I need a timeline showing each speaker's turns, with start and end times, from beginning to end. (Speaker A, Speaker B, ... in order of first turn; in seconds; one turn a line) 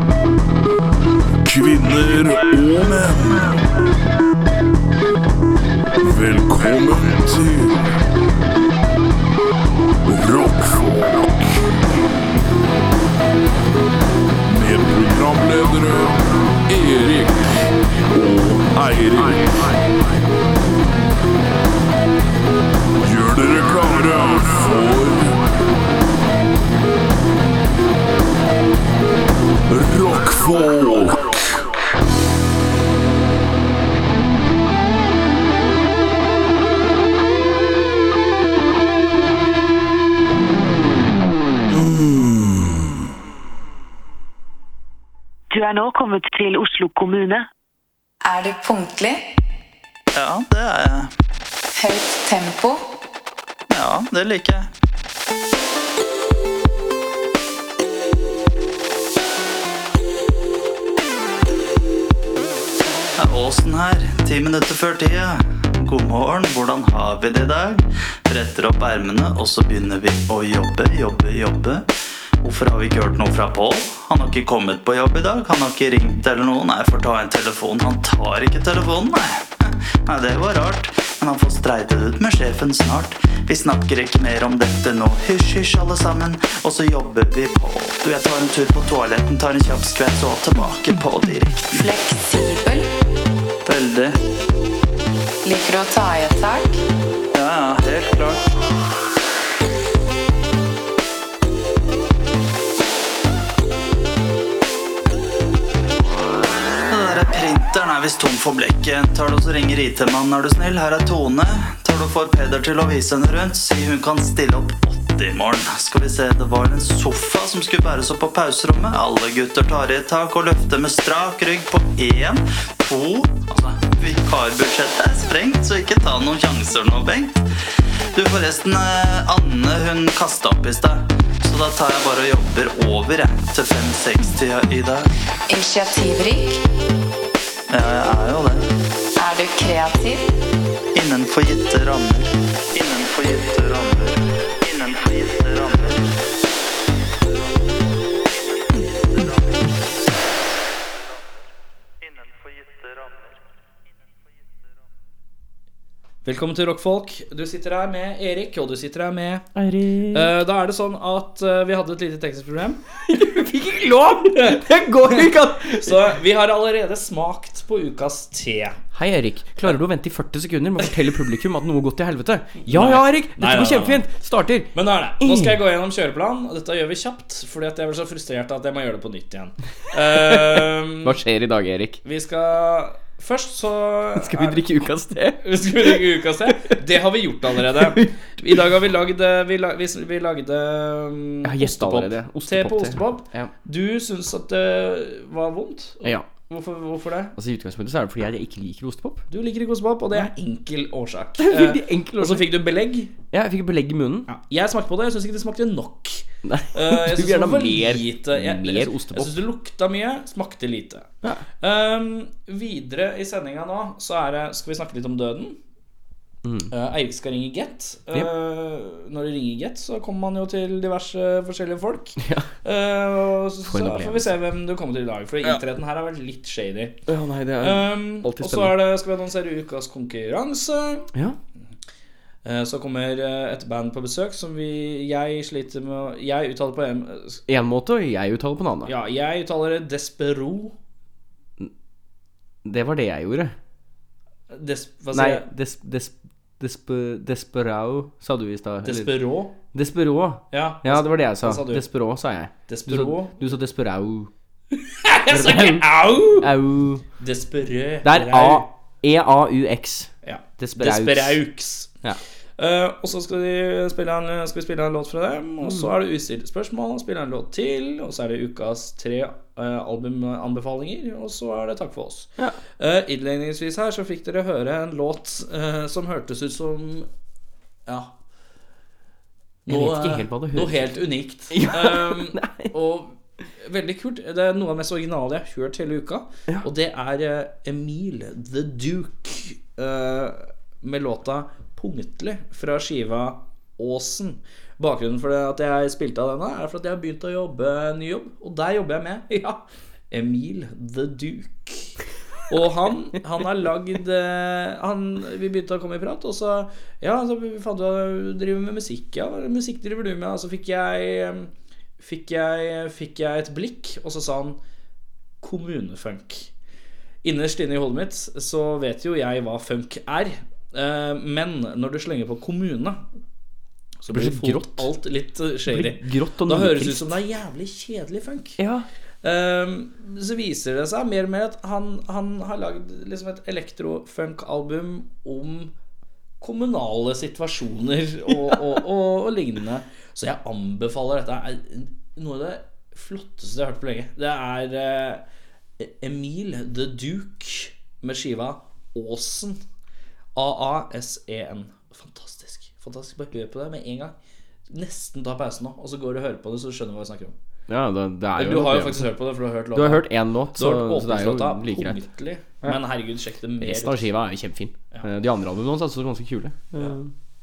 Speaker A: 1.4-3.6
Speaker A: 6.0-7.9
Speaker A: 10.0-11.8
Speaker A: 14.4-19.8
Speaker A: 23.0-25.4
Speaker A: 29.7-31.4
Speaker B: 41.8-42.0
Speaker C: 45.5-47.5
Speaker D: 48.2-49.2
Speaker B: 50.1-51.1
Speaker D: 51.8-52.8
Speaker B: 53.7-54.7
Speaker B: 63.2-71.9
Speaker B: 72.4-91.7
Speaker D: 91.7-92.9
Speaker B: 93.7-94.2
Speaker D: 95.4-96.8
Speaker B: 97.3-98.4
Speaker B: 106.9-127.4
Speaker B: 128.1-135.1
Speaker D: 135.5-136.6
Speaker B: 137.7-138.7
Speaker D: 139.2-140.3
Speaker B: 140.9-146.0
Speaker B: 152.1-153.2
Speaker E: 156.2-159.5
Speaker F: 159.6-160.3
Speaker E: 160.1-163.0
Speaker F: 163.1-166.0
Speaker E: 164.2-168.8
Speaker F: 168.9-175.6
Speaker E: 172.7-174.1
Speaker E: 174.7-181.2
Speaker F: 180.2-182.0
Speaker E: 182.0-184.7
Speaker F: 184.2-186.0
Speaker E: 185.4-197.3
Speaker F: 187.7-188.1
Speaker F: 191.4-193.5
Speaker F: 196.0-196.3
Speaker F: 197.3-199.2
Speaker E: 199.3-203.1
Speaker F: 201.4-202.5
Speaker F: 203.3-204.3
Speaker E: 204.3-215.6
Speaker F: 206.4-209.4
Speaker F: 216.4-216.7
Speaker E: 216.7-227.0
Speaker F: 222.2-222.5
Speaker F: 223.7-224.3
Speaker F: 227.1-228.8
Speaker E: 227.6-231.1
Speaker E: 232.4-237.4
Speaker F: 237.5-238.9
Speaker E: 238.8-240.8
Speaker F: 242.6-243.6
Speaker E: 244.5-245.5
Speaker F: 245.1-249.1
Speaker E: 248.8-249.6
Speaker F: 249.7-254.3
Speaker E: 250.5-251.8
Speaker E: 252.7-253.4
Speaker E: 254.7-256.5
Speaker F: 255.3-257.0
Speaker E: 257.2-258.7
Speaker F: 258.0-261.4
Speaker E: 260.2-262.0
Speaker E: 262.6-277.1
Speaker F: 265.6-265.9
Speaker E: 277.9-278.1
Speaker E: 279.6-302.0
Speaker F: 279.7-280.9
Speaker F: 281.5-282.7
Speaker E: 302.5-314.6
Speaker E: 315.4-316.5
Speaker E: 317.2-323.0
Speaker E: 324.0-328.6
Speaker F: 324.1-324.9
Speaker F: 325.7-327.1
Speaker F: 328.6-328.9
Speaker E: 329.2-335.7
Speaker E: 336.4-345.2
Speaker E: 345.8-349.6
Speaker E: 350.3-354.1
Speaker E: 354.7-357.3
Speaker F: 357.7-359.1
Speaker E: 358.4-364.1
Speaker F: 359.7-362.0
Speaker F: 363.6-367.1